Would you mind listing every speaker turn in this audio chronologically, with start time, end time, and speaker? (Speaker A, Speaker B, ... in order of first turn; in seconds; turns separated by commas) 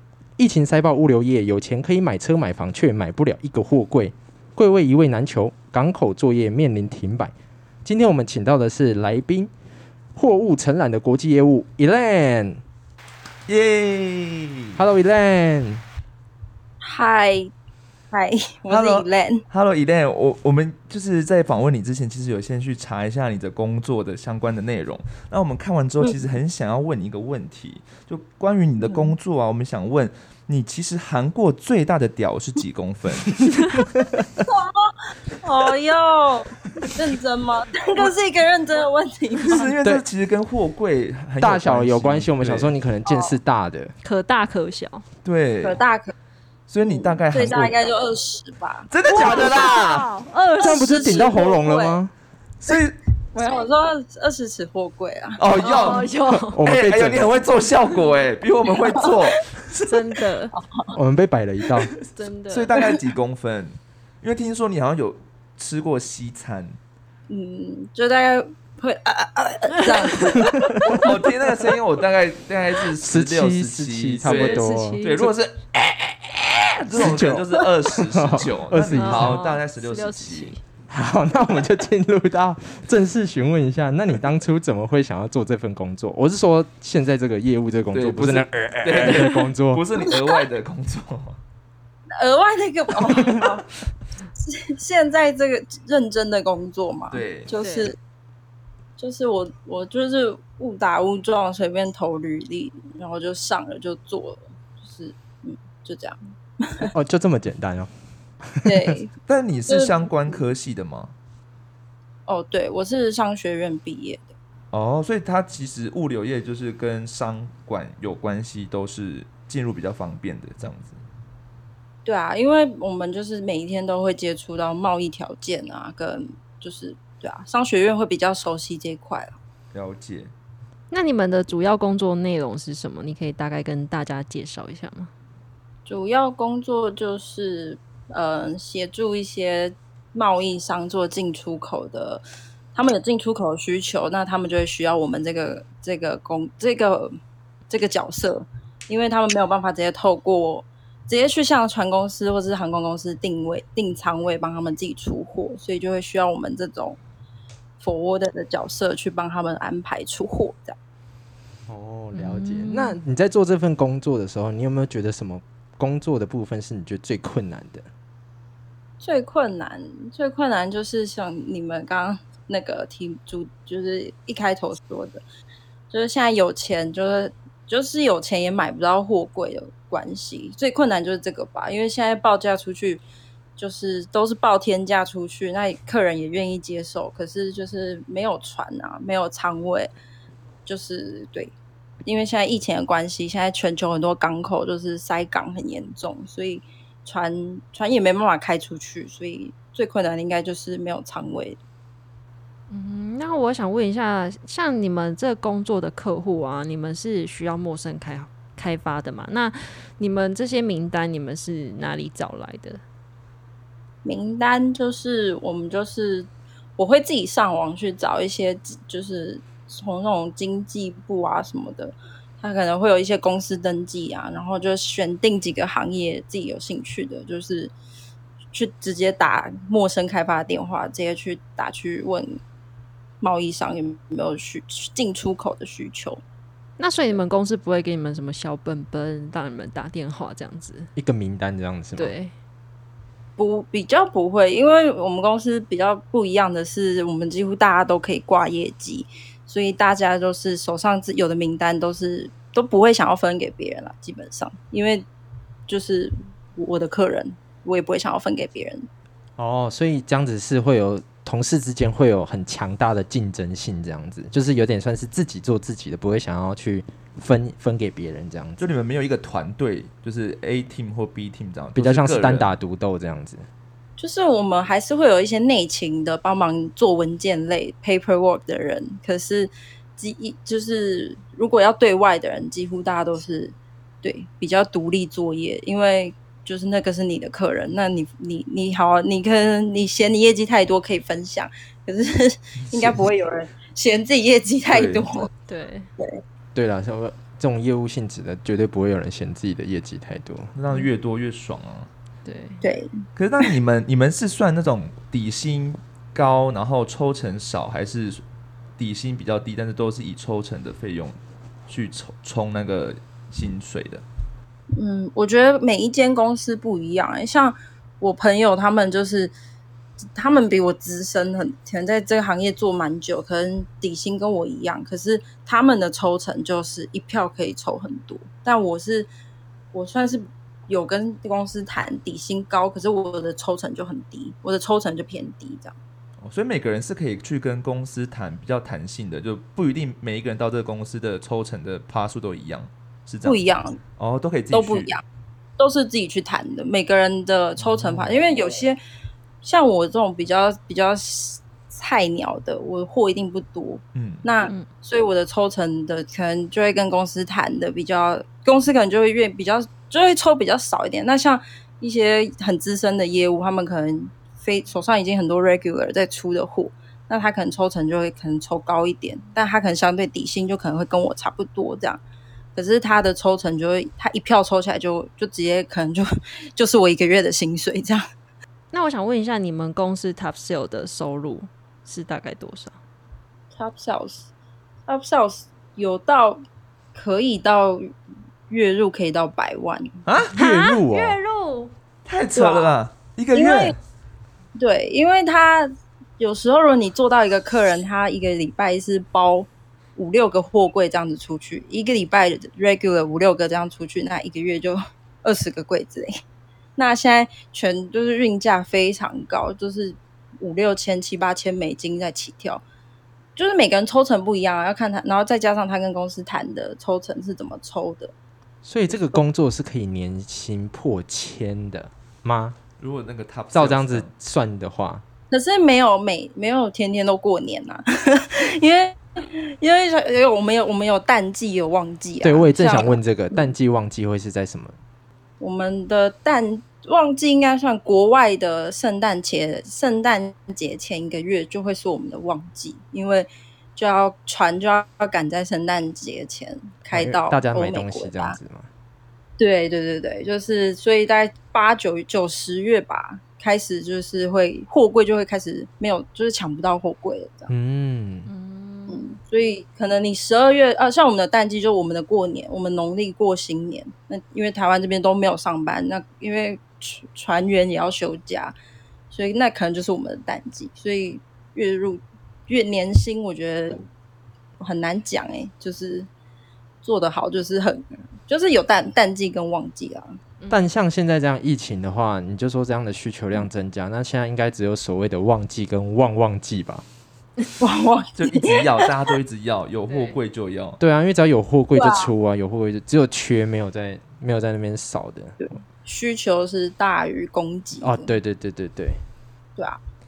Speaker A: 0.4-7.3, Speaker A: 7.8-9.5, Speaker A: 10.2-12.6, Speaker B: 13.5-14.8, Speaker A: 14.8-15.8, Speaker C: 16.8-17.5, Speaker C: 18.1-19.4, Speaker B: 18.7-33.4, Speaker C: 28.8-29.1, Speaker D: 33.5-33.8, Speaker C: 34.5-39.7, Speaker B: 39.5-42.8, Speaker A: 41.4-43.9, Speaker C: 43.0-43.4, Speaker D: 44.0-45.1, Speaker B: 45.2-45.8, Speaker C: 45.6-46.1, Speaker B: 46.7-47.7, Speaker C: 46.9-48.9, Speaker B: 48.9-50.1, Speaker D: 49.1-51.2, Speaker C: 50.6-52.0, Speaker A: 50.6-52.1, Speaker B: 52.6-53.0, Speaker C: 53.3-55.6, Speaker B: 55.4-56.1, Speaker D: 55.6-56.6, Speaker A: 55.9-57.4, Speaker B: 56.6-60.1, Speaker C: 58.7-59.3, Speaker D: 59.9-60.5, Speaker C: 60.5-61.0, Speaker A: 60.9-61.9, Speaker B: 61.9-66.8, Speaker D: 62.1-62.7, Speaker C: 62.7-63.0, Speaker C: 67.3-71.0, Speaker A: 70.5-71.0, Speaker B: 70.9-80.6, Speaker A: 73.0-75.0, Speaker D: 74.2-75.3, Speaker A: 76.9-79.5, Speaker D: 78.9-80.6, Speaker A: 80.9-89.8, Speaker B: 87.9-91.4, Speaker C: 90.0-90.5, Speaker C: 92.2-93.7, Speaker C: 94.3-98.0, Speaker B: 97.1-97.6, Speaker D: 97.6-97.9, Speaker C: 99.0-106.9, Speaker A: 106.8-107.9, Speaker A: 108.4-108.9, Speaker C: 108.6-109.1, Speaker B: 109.3-111.1, Speaker C: 109.7-110.5, Speaker C: 112.3-114.3, Speaker B: 114.7-121.0, Speaker C: 122.0-129.3, Speaker B: 129.7-130.3, Speaker D: 130.9-135.1, Speaker C: 135.9-142.2, Speaker C: 142.8-147.1, Speaker C: 147.7-157.0, Speaker C: 157.8-160.8, Speaker A: 161.7-167.9, Speaker D: 162.1-163.0, Speaker C: 169.0-175.2, Speaker C: 175.9-183.0, Speaker C: 183.6-189.9, Speaker C: 190.7-201.6, Speaker D: 202.7-212.8, Speaker C: 214.0-227.7, Speaker C: 228.5-232.4, Speaker C: 233.2-236.2, Speaker D: 236.8-240.9, Speaker A: 241.0-242.1, Speaker D: 241.9-242.3, Speaker C: 243.4-255.1, Speaker C: 255.7-258.9, Speaker A: 259.4-268.6, Speaker B: 268.6-272.5, Speaker A: 271.7-273.4, Speaker C: 274.0-295.3, Speaker B: 292.7-293.0, Speaker B: 294.7-295.2, Speaker D: 295.5-295.9, Speaker A: 296.6-300.5, Speaker B: 300.6-301.9, Speaker D: 302.2-302.6, Speaker C: 302.6-303.5, Speaker B: 303.2-308.2, Speaker B: 308.8-314.1, Speaker C: 314.7-319.3, Speaker C: 320.1-329.1, Speaker C: 329.7-335.8, Speaker B: 336.2-343.4, Speaker C: 343.2-343.8, Speaker B: 344.0-344.9, Speaker C: 344.5-345.0, Speaker C: 345.6-348.8, Speaker B: 347.6-348.2, Speaker C: 349.4-372.0, Speaker B: 353.9-354.3, Speaker C: 372.6-378.0, Speaker D: 378.7-382.8, Speaker C: 383.5-384.3, Speaker C: 384.9-386.4, Speaker C: 386.9-387.9, Speaker C: 388.5-389.9, Speaker B: 390.1-390.4, Speaker A: 390.3-391.2, Speaker D: 390.3-391.7, Speaker B: 392.1-393.8, Speaker C: 392.3-392.8, Speaker C: 393.3-393.8, Speaker C: 394.6-406.1, Speaker C: 406.8-412.6, Speaker C: 413.4-418.1, Speaker A: 418.6-422.6, Speaker C: 418.9-419.3, Speaker B: 422.8-424.1, Speaker A: 423.5-425.0, Speaker C: 425.3-433.5, Speaker A: 432.2-434.8, Speaker C: 435.4-448.4, Speaker A: 446.9-448.7, Speaker C: 449.4-457.5, Speaker A: 457.5-458.3, Speaker D: 458.3-459.1, Speaker C: 458.9-468.5, Speaker C: 469.1-473.8, Speaker C: 474.6-476.1, Speaker C: 476.8-480.2, Speaker D: 480.4-480.7, Speaker A: 480.5-486.9, Speaker C: 487.6-488.8, Speaker B: 488.2-490.8, Speaker D: 489.9-490.1, Speaker A: 490.8-495.4, Speaker C: 491.8-492.1, Speaker C: 495.4-498.1, Speaker A: 497.8-499.0